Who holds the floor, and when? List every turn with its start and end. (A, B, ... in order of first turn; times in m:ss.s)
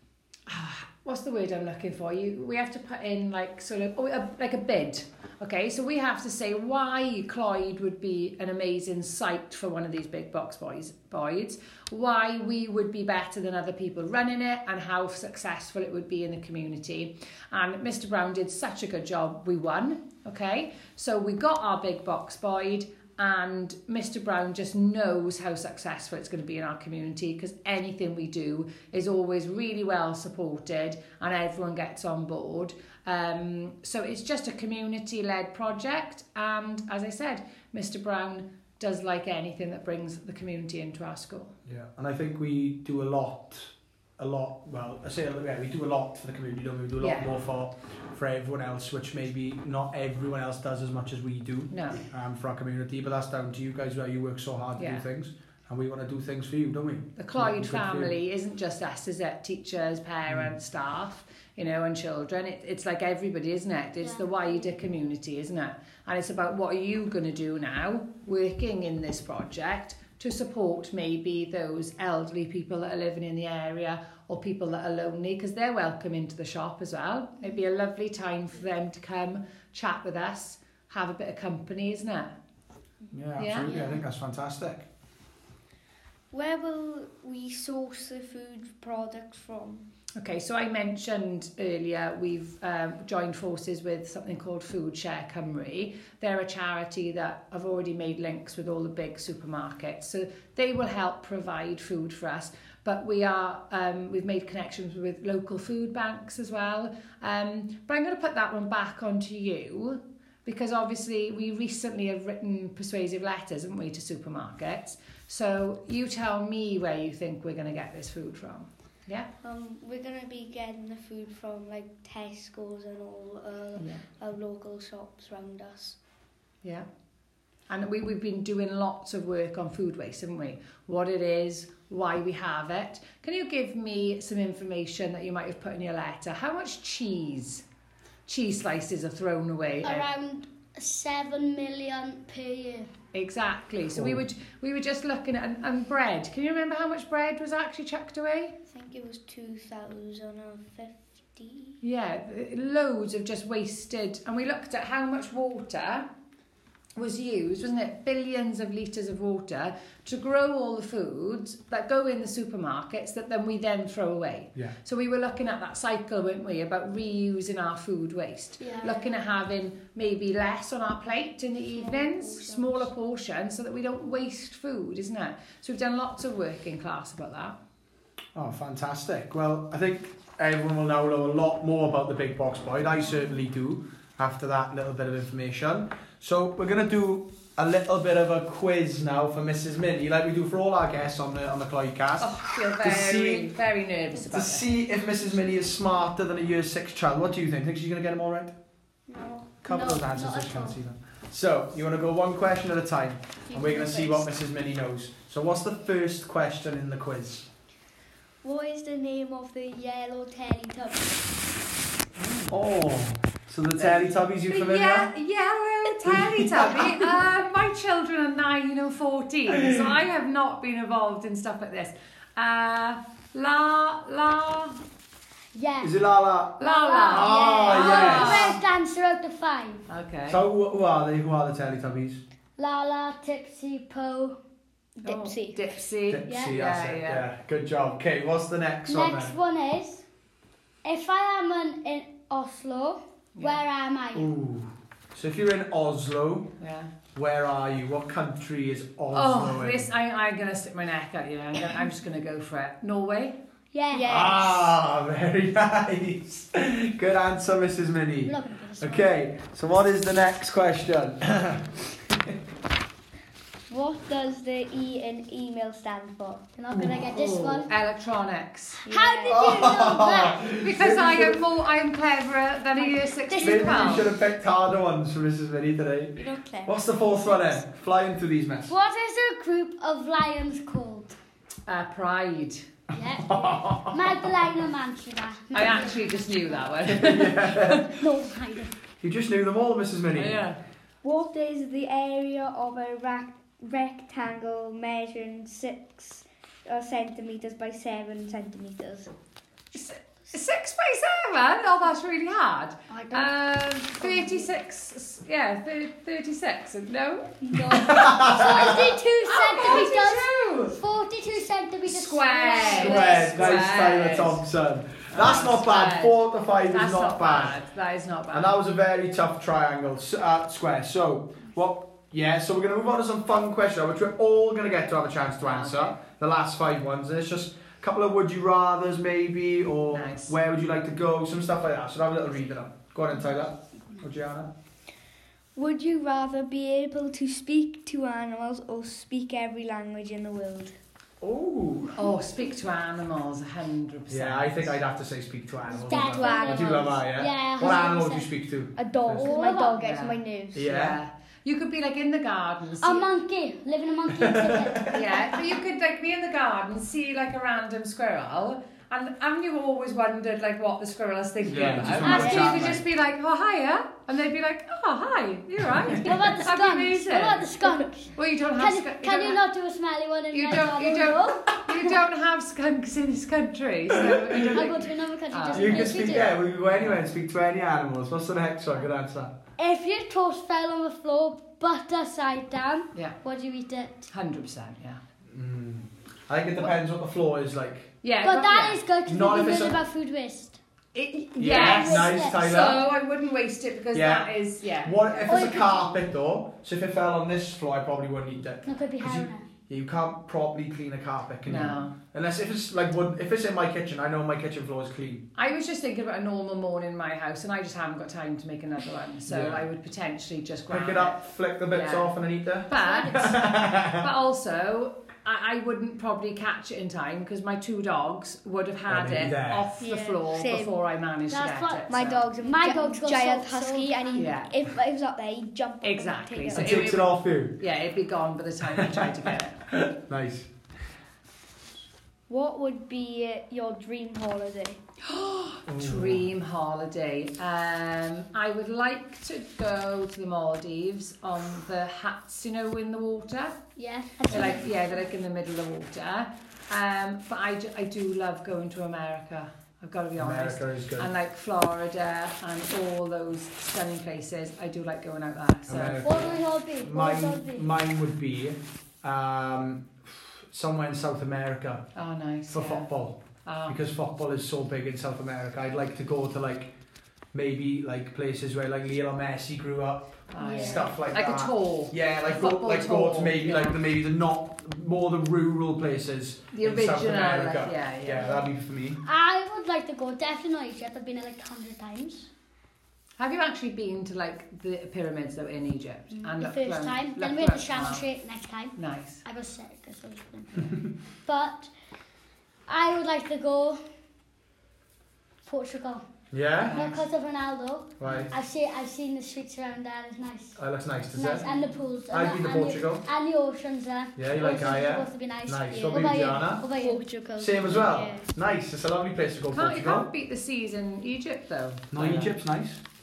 0:00.5-0:41.5 A
0:41.7-0:58.2 B
0:47.0-0:47.3 A
0:51.7-0:52.0 A
0:54.8-0:55.0 A
0:57.2-1:22.4 A
1:04.0-1:04.7 C
1:23.1-1:24.9 B
1:23.4-1:24.0 A
1:26.3-1:29.8 D
1:30.2-1:59.3 A
1:59.4-2:06.0 D
2:03.8-2:04.0 A
2:07.7-2:17.6 A
2:18.3-2:20.1 A
2:19.8-2:22.9 C
2:23.1-2:28.6 A
2:23.9-2:24.2 B
2:28.7-2:31.8 D
2:31.8-2:36.1 A
2:37.0-2:57.6 A
2:48.6-2:49.1 C
2:51.7-2:52.9 D
2:58.4-3:13.5 B
3:12.2-3:14.7 A
3:14.2-3:18.5 B
3:19.1-3:19.6 D
3:19.6-3:27.5 B
3:19.7-3:20.8 C
3:23.5-3:24.3 D
3:28.4-3:31.2 D
3:32.2-3:32.5 A
3:32.5-3:35.1 B
3:33.8-3:44.8 A
3:36.1-3:37.0 B
3:45.5-3:46.0 C
3:45.8-3:48.6 B
3:46.6-3:48.6 A
3:46.6-3:49.8 C
3:49.9-3:50.4 A
3:50.3-3:52.2 B
3:52.6-3:54.4 C
3:55.0-3:55.6 D
3:55.0-3:57.3 A
3:56.1-3:59.4 B
3:56.3-3:56.5 C
3:58.9-4:00.0 C
4:00.8-4:04.3 C
4:04.1-4:06.5 B
4:06.6-4:06.9 A
4:07.2-4:09.9 B
4:09.1-4:13.4 A
4:13.7-4:14.1 C
4:13.9-4:14.7 D
4:14.1-4:22.0 B
4:18.2-4:19.1 C
4:23.7-4:26.4 D
4:26.6-4:27.7 C
4:26.7-4:28.8 A
4:28.8-4:29.4 D
4:28.9-4:30.5 C
4:29.3-4:31.4 B
4:30.6-4:34.1 A
4:32.8-4:34.0 C
4:33.4-4:38.7 B
4:36.2-4:37.5 D
4:38.7-4:41.2 C
4:41.7-4:42.6 A
4:42.9-4:46.6 C
4:43.3-4:44.2 B
4:45.5-4:47.8 A
4:46.8-4:47.9 B
4:47.9-4:48.8 C
4:49.0-4:50.4 B
4:50.1-4:50.6 A
4:51.0-4:59.1 D
4:59.7-5:07.4 A
5:02.9-5:03.3 D
5:03.9-5:04.5 D
5:07.4-5:08.5 D
5:07.7-5:08.9 B
5:08.2-5:13.6 C
5:09.2-5:10.8 A
5:11.9-5:14.4 A
5:12.7-5:17.6 B
5:15.1-5:16.1 A
5:16.7-5:18.5 A
5:18.3-5:34.5 B
5:25.4-5:26.0 A
5:29.9-5:30.4 A
5:35.6-5:40.8 D
5:41.2-5:42.1 B
5:42.0-5:44.8 A
5:44.1-5:49.3 B
5:45.7-5:48.3 C
5:45.9-5:47.0 D
5:48.8-5:50.6 D
5:49.2-5:49.8 C
5:49.8-5:53.1 A
5:50.5-5:51.0 B
5:52.8-5:55.0 C
5:54.2-5:55.0 B
5:54.9-6:09.4 A
6:01.4-6:02.8 B
6:02.0-6:02.7 C
6:02.1-6:02.6 D
6:06.0-6:11.5 C
6:10.3-6:15.9 A
6:14.5-6:16.4 C
6:15.5-6:19.3 B
6:19.6-6:24.1 C
6:22.9-6:23.2 A
6:24.1-6:25.0 A
6:25.3-6:27.9 B
6:28.0-6:28.8 A
6:28.2-6:30.6 C
6:29.1-6:29.8 B
6:31.0-6:35.0 A
6:31.4-6:32.8 B
6:31.4-6:32.4 C
6:33.9-6:45.2 B
6:35.1-6:36.0 C
6:38.6-6:39.5 C
6:41.5-6:41.9 A
6:45.4-7:02.3 A
6:49.3-6:49.6 B
6:50.7-6:54.1 B
6:52.7-6:53.2 C
6:58.9-6:59.7 B
6:59.8-7:00.8 D
7:01.3-7:01.8 C
7:01.9-7:06.9 D
7:02.4-7:04.4 C
7:04.2-7:04.5 A
7:05.8-7:09.6 A
7:06.5-7:07.6 B
7:08.8-7:10.5 B
7:12.3-7:14.8 D
7:15.1-7:23.6 A
7:15.7-7:16.3 B
7:23.8-7:24.7 C
7:24.3-7:36.4 A
7:30.2-7:31.1 B
7:35.7-7:41.9 B
7:36.0-7:37.7 C
7:42.0-7:42.9 A
7:42.5-7:46.7 B
7:43.4-7:43.8 A
7:47.3-7:59.0 B
7:50.3-7:53.8 A
7:50.4-7:50.9 D
7:56.5-7:58.5 A
7:59.0-8:02.3 C
8:03.2-8:08.1 A
8:06.2-8:11.7 C
8:08.8-8:09.2 A
8:12.7-8:13.8 C
8:15.4-8:16.0 C
8:16.3-8:16.9 B
8:16.6-8:17.1 A
8:16.7-8:20.6 C
8:18.0-8:18.3 B
8:18.0-8:18.3 A
8:20.6-8:21.5 B
8:21.1-8:27.0 C
8:22.1-8:23.1 B
8:24.2-8:26.7 B
8:25.7-8:28.3 D
8:27.4-8:30.1 B
8:29.5-8:32.4 A
8:31.9-8:32.8 B